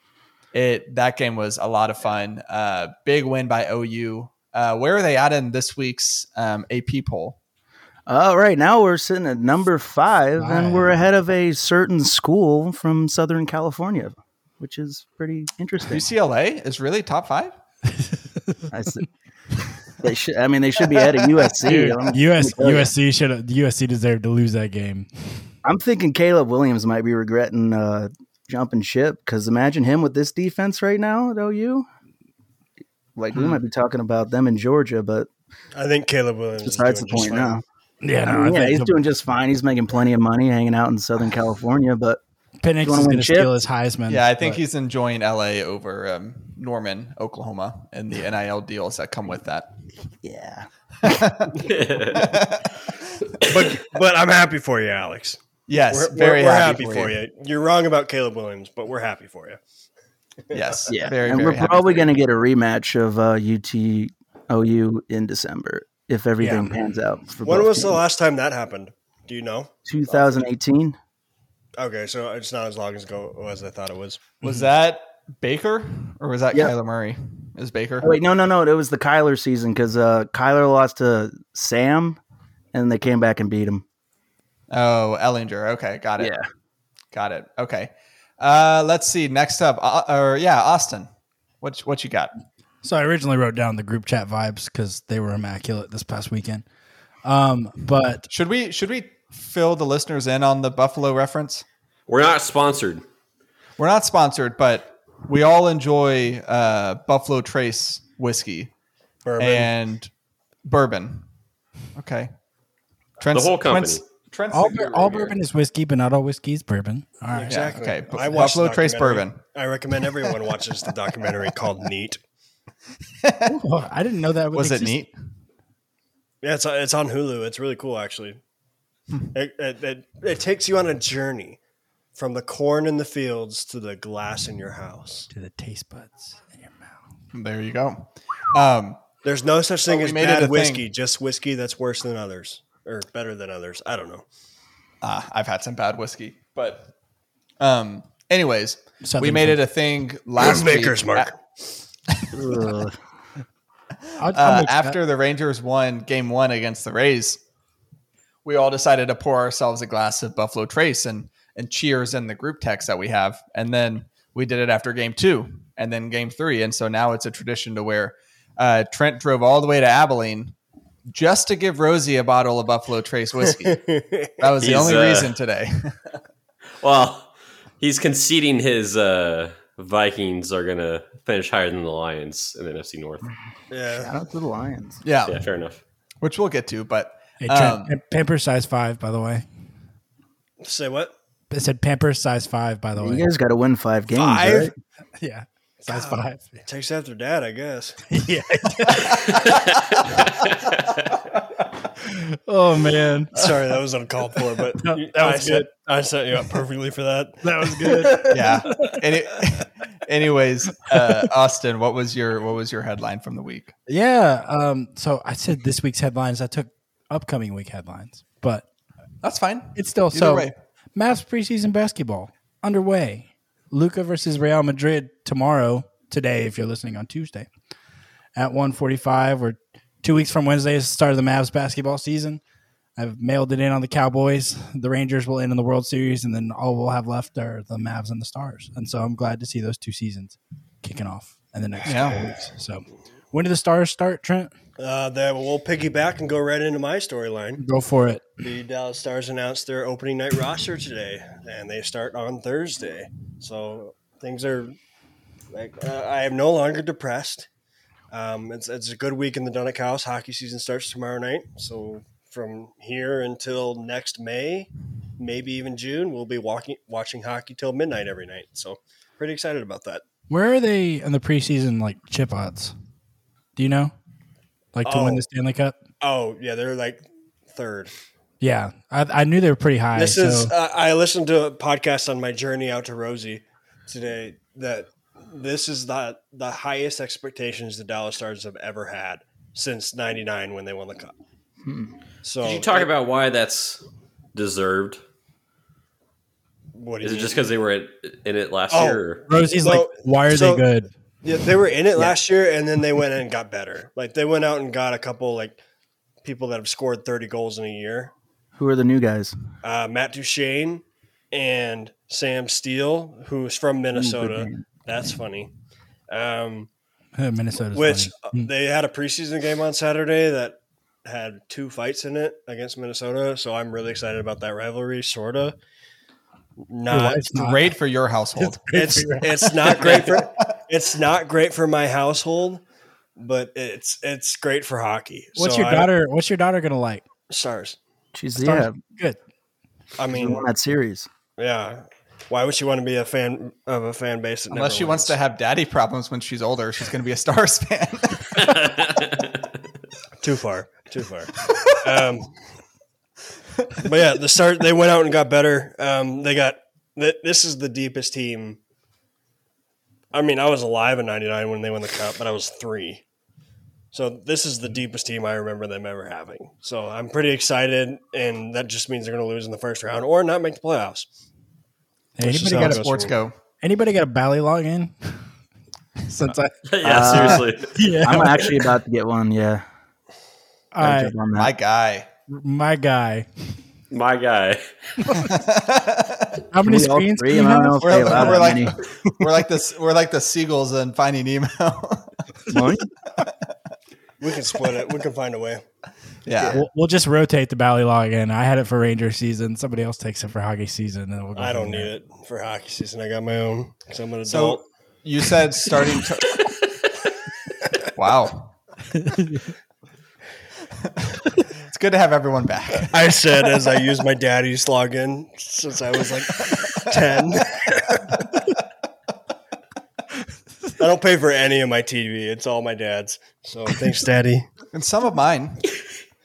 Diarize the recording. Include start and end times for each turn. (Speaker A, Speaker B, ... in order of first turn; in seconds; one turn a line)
Speaker A: 0.5-7.4
Speaker B: 8.1-16.1
Speaker C: 10.4-11.0
Speaker A: 15.9-17.5
Speaker C: 17.9-18.7
Speaker B: 18.7-19.1
Speaker B: 20.0-22.9
Speaker A: 20.9-21.3
Speaker C: 21.6-25.1
Speaker B: 25.6-31.9
Speaker B: 33.1-35.3
Speaker D: 35.7-37.6
Speaker B: 36.6-37.6
Speaker C: 38.0-38.9
Speaker B: 38.2-42.2
Speaker C: 42.6-44.6
Speaker B: 42.8-43.5
Speaker A: 44.1-49.7
Speaker B: 50.2-51.4
Speaker A: 51.0-51.5
Speaker E: 51.6-52.2
Speaker A: 52.1-52.8
Speaker D: 53.4-59.6
Speaker A: 55.7-57.2
Speaker D: 60.5-60.9
Speaker A: 60.5-62.1
Speaker B: 60.9-68.0
Speaker C: 66.4-66.8
Speaker D: 67.4-70.4
Speaker B: 69.8-71.0
Speaker D: 71.8-74.4
Speaker A: 74.4-78.1
Speaker B: 78.0-82.2
Speaker B: 82.7-83.8
Speaker A: 84.7-86.3
Speaker B: 86.2-86.4
Speaker A: 87.1-91.1
Speaker A: 91.6-92.3
Speaker C: 92.8-96.6
Speaker C: 97.2-98.3
Speaker A: 98.3-101.6
Speaker E: 102.1-103.0
Speaker A: 103.8-108.7
Speaker D: 109.2-109.7
Speaker A: 109.4-110.1
Speaker A: 110.7-111.3
Speaker A: 112.0-112.3
Speaker A: 113.2-115.3
Speaker E: 113.3-114.0
Speaker C: 114.5-117.7
Speaker D: 117.3-122.2
Speaker A: 117.5-119.4
Speaker A: 123.2-123.5
Speaker C: 123.5-125.0
Speaker A: 124.5-125.1
Speaker D: 126.4-128.4
Speaker D: 129.3-131.6
Speaker D: 132.1-135.3
Speaker C: 135.3-136.9
Speaker A: 137.3-139.0
Speaker D: 139.2-144.2
Speaker A: 139.9-140.8
Speaker A: 145.0-146.9
Speaker A: 147.6-151.3
Speaker C: 149.0-149.6
Speaker D: 150.4-151.4
Speaker A: 152.1-152.7
Speaker B: 152.3-153.0
Speaker C: 154.2-155.0
Speaker A: 154.3-157.4
Speaker A: 158.4-170.6
Speaker A: 171.1-173.8
Speaker D: 173.5-174.5
Speaker A: 174.4-176.0
Speaker E: 174.6-175.3
Speaker E: 176.8-183.3
Speaker D: 183.7-184.1
Speaker B: 183.9-185.0
Speaker A: 185.0-185.4
Speaker E: 185.2-185.8
Speaker A: 186.2-188.0
Speaker C: 187.4-189.4
Speaker D: 190.6-191.1
Speaker C: 191.5-193.3
Speaker B: 193.0-194.7
Speaker D: 194.1-194.7
Speaker C: 195.2-196.6
Speaker D: 195.9-198.0
Speaker C: 198.1-199.3
Speaker E: 199.4-201.0
Speaker C: 202.0-203.5
Speaker D: 203.3-208.6
Speaker C: 204.8-205.7
Speaker C: 207.4-209.0
Speaker A: 208.3-213.7
Speaker C: 213.9-218.6
Speaker A: 219.2-220.5
Speaker C: 219.8-227.5
Speaker C: 228.3-232.4
Speaker C: 233.0-244.5
Speaker A: 241.9-242.2
Speaker D: 244.8-247.6
Speaker C: 247.6-248.2
Speaker D: 248.4-254.8
Speaker D: 255.5-257.5
Speaker D: 258.1-270.0
Speaker C: 270.3-272.7
Speaker C: 273.6-273.9
Speaker C: 274.7-275.8
Speaker D: 274.8-275.2
Speaker D: 276.0-277.9
Speaker C: 278.4-280.5
Speaker D: 279.9-291.1
Speaker B: 291.6-291.9
Speaker D: 292.2-292.9
Speaker E: 292.4-293.8
Speaker E: 294.3-295.0
Speaker D: 296.7-297.4
Speaker E: 297.0-299.2
Speaker D: 298.7-300.6
Speaker C: 299.3-300.9
Speaker D: 301.2-305.6
Speaker D: 306.2-308.1
Speaker B: 308.6-309.3
Speaker D: 309.6-315.5
Speaker B: 313.9-314.7
Speaker D: 316.1-316.7
Speaker C: 317.2-318.5
Speaker D: 317.7-325.6
Speaker D: 326.7-327.3
Speaker C: 326.9-327.7
Speaker A: 327.3-328.6
Speaker C: 328.4-329.8
Speaker D: 328.7-332.6
Speaker A: 329.6-330.4
Speaker D: 333.1-335.9
Speaker C: 335.4-337.0
Speaker D: 337.3-337.8
Speaker B: 338.1-338.8
Speaker C: 338.4-339.2
Speaker D: 340.0-340.5
Speaker B: 340.1-341.1
Speaker D: 341.4-345.1
Speaker A: 344.5-348.6
Speaker E: 348.4-349.3
Speaker D: 350.2-352.4
Speaker D: 353.8-358.6
Speaker D: 360.1-363.0
Speaker D: 363.9-371.1
Speaker C: 372.1-372.8
Speaker D: 372.2-373.1
Speaker A: 372.5-373.4
Speaker C: 373.6-375.2
Speaker C: 376.1-378.6
Speaker E: 376.6-377.8
Speaker B: 376.8-377.5
Speaker B: 378.0-379.6
Speaker C: 380.7-381.1
Speaker B: 380.8-381.5
Speaker A: 381.4-382.1
Speaker C: 382.3-383.3
Speaker E: 383.9-384.6
Speaker C: 385.0-385.3
Speaker A: 385.1-386.4
Speaker C: 386.5-388.6
Speaker B: 386.6-388.8
Speaker A: 387.8-392.1
Speaker B: 392.5-392.9
Speaker D: 394.2-395.6
Speaker A: 396.2-396.6
Speaker C: 396.5-401.9
Speaker D: 401.4-404.7
Speaker A: 404.2-406.5
Speaker A: 407.9-408.6
Speaker C: 408.9-409.5
Speaker A: 411.5-413.1
Speaker D: 412.9-418.2
Speaker A: 416.5-416.9
Speaker D: 420.8-424.5
Speaker A: 424.7-425.6